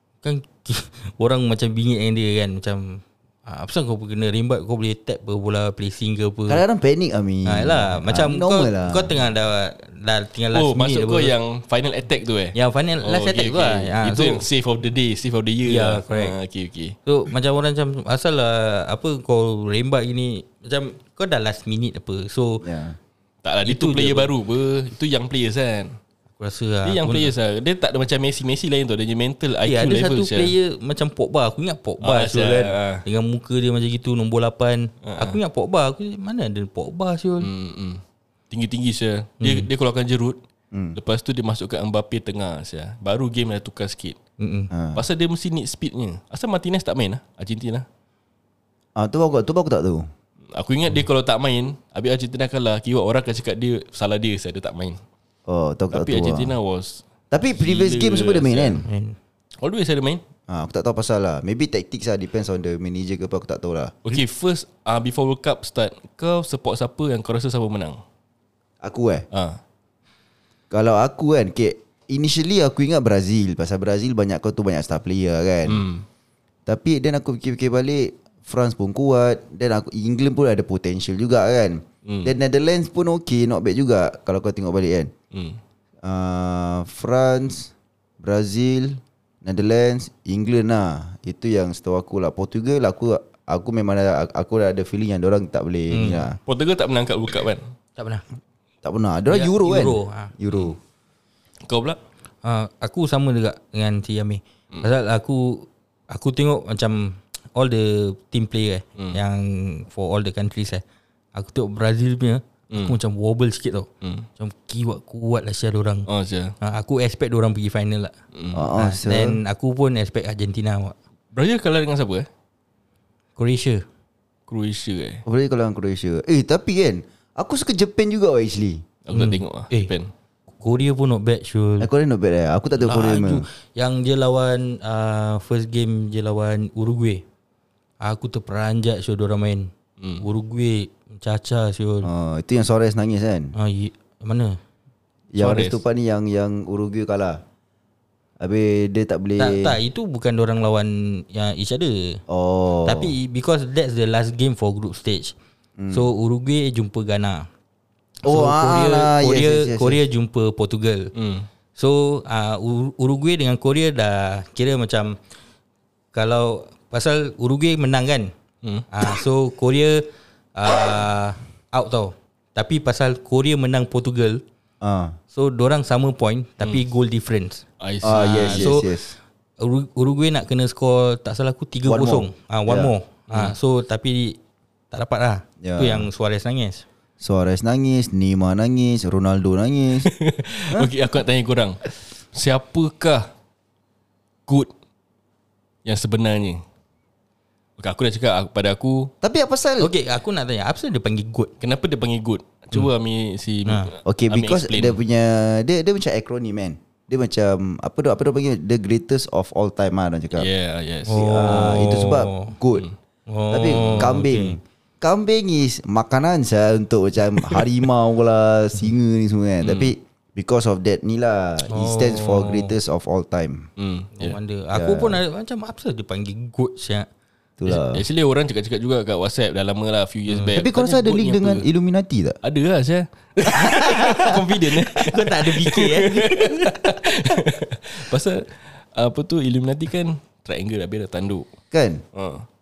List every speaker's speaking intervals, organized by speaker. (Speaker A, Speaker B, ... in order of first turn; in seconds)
Speaker A: 0.2-6.6, 7.5-11.3, 12.5-14.4, 15.6-16.3, 17.1-22.6, 23.6-24.3, 26.4-27.3, 29.6-37.5, 39.4-39.7, 44.4-44.7, 58.9-59.2, 95.9-96.4, 98.0-98.2, 99.3-100.3, 102.4-110.8, 111.3-116.1, 116.6-118.1, 118.8-120.9, 123.4-123.8, 129.1-129.9, 130.6-131.9, 132.8-137.2, 138.0-142.1, 143.6-144.6, 149.4-152.2, 152.8-155.3, 155.9-157.5, 158.2-161.1, 161.8-165.2, 166.1-168.3, 168.9-174.4, 175.3-177.6, 178.4-179.0, 179.6-184.4, 184.9-186.8, 199.8-201.5, 211.1-212.6, 213.3-214.6, 221.7-222.7, 224.2-227.1, 230.3-230.6, 233.6-236.9
Speaker B: 6.5-9.1, 22.6-23.0, 40.7-41.0, 44.7-45.0, 49.0-50.1, 55.5-56.5, 57.3-58.8, 60.5-64.0, 68.8-69.2, 70.7-75.8, 76.7-85.1, 86.0-96.4, 98.8-100.8, 118.5-119.4, 125.2-128.8, 131.8-133.4, 142.0-143.5, 145.3-147.4, 148.4-149.8, 152.3-153.1, 155.8-156.1, 158.2-160.0, 174.8-175.2, 178.0-179.1, 181.8-182.9, 185.6-186.1, 187.2-190.1, 199.2-199.9, 204.0-210.5, 211.1-212.8, 213.5-223.7, 224.7-225.2, 227.6-228.0, 230.6-232.4, 241.7-242.0
Speaker C: 10.5-16.9, 23.4-26.0, 26.8-30.5, 32.0-33.0, 35.0-35.4, 37.4-40.4, 40.9-44.2, 44.9-47.8, 50.5-55.0, 55.9-58.8, 59.6-60.2, 64.0-68.0, 69.3-69.6, 75.7-76.0, 82.0-82.3, 85.3-85.6, 96.5-97.6, 101.7-102.0, 116.1-116.5, 118.3-118.6, 121.3-122.3, 124.5-125.2, 129.1-130.1, 140.0-140.2, 145.4-145.8, 161.1-161.5, 177.8-178.8, 190.0-193.3, 194.5-194.7, 195.8-196.6, 197.8-199.1, 201.6-205.0, 210.3-211.5, 219.6-219.9, 223.8-224.4, 227.7-231.6, 232.4-241.5, 242.1-242.4